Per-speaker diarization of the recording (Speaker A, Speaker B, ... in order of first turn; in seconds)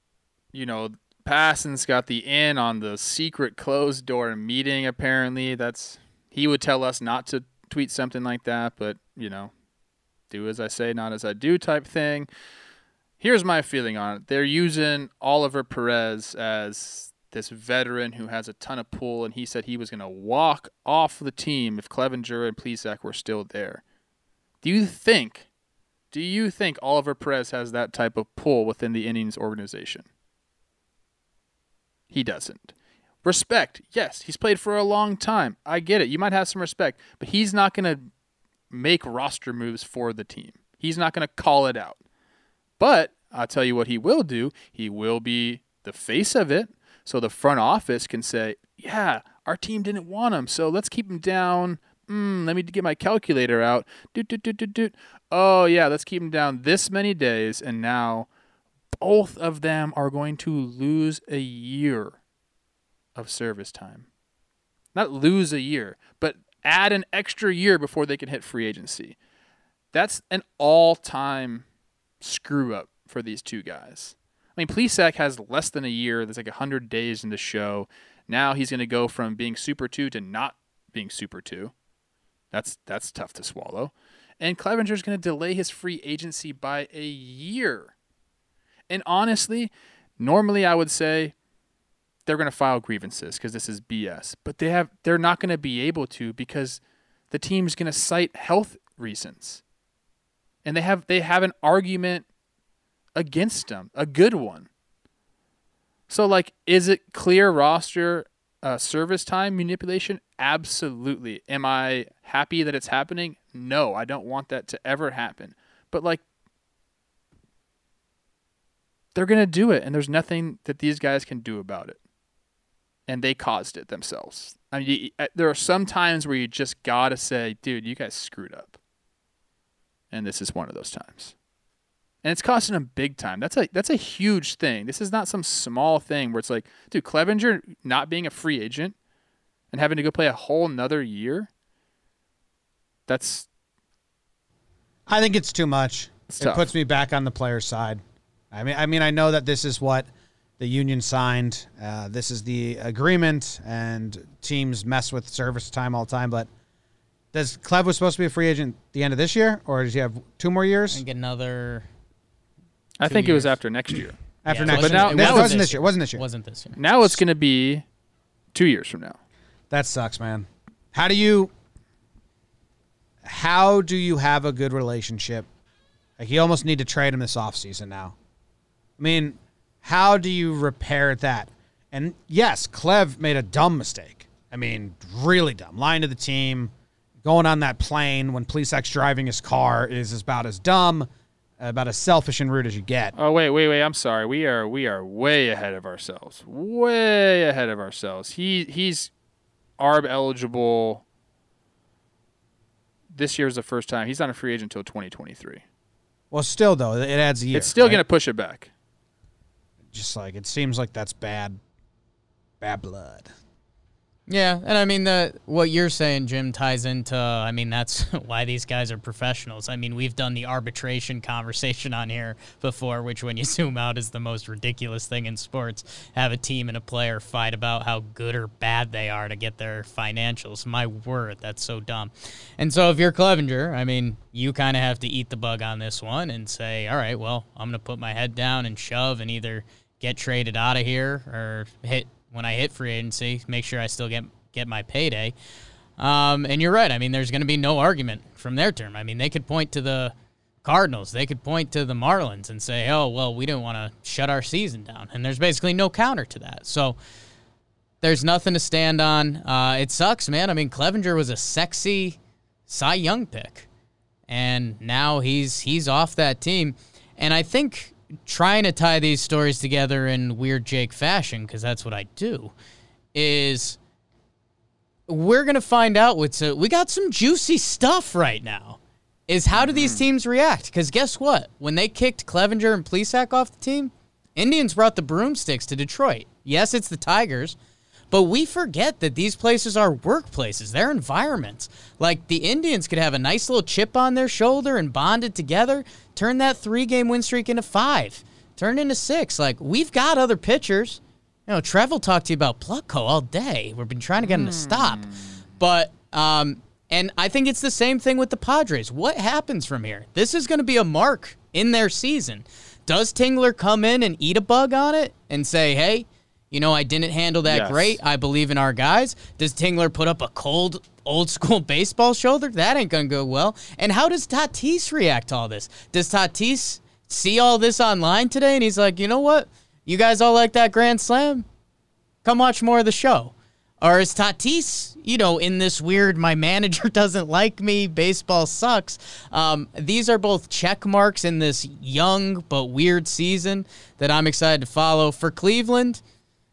Speaker A: 0.5-9.5, 10.3-12.3, 13.2-23.8, 24.6-25.5, 26.1-30.1, 32.1-32.7, 33.2-38.0, 38.7-42.0, 42.8-58.3, 59.0-62.2, 63.1-64.1, 65.0-69.2, 69.9-71.7, 72.2-81.7, 82.5-87.9, 88.9-91.3, 92.3-96.8, 97.3-99.6, 100.7-102.2, 103.2-104.7, 106.1-116.2, 119.2-122.0, 123.1-128.8, 130.1-131.3, 132.2-138.9, 139.7-141.5, 143.1-143.5, 146.3-146.7, 163.0-165.6, 166.8-167.8, 168.5-169.2, 193.2-199.1, 199.8-201.0, 203.1-205.6, 207.5-208.7, 279.6-280.0, 304.4-304.8, 317.4-318.0
Speaker B: 145.1-150.1, 150.6-156.5, 157.3-161.0, 164.4-166.2, 169.7-171.5, 173.2-175.5, 176.2-178.2, 179.0-186.7, 187.2-191.1, 191.6-193.2, 206.3-208.0, 209.9-211.6, 212.6-213.3
Speaker C: 160.9-161.9, 163.0-163.5, 164.5-166.8, 214.3-245.3, 246.0-257.0, 258.0-263.7, 264.3-272.5, 273.1-273.8, 275.1-287.6, 288.1-331.5, 332.2-346.0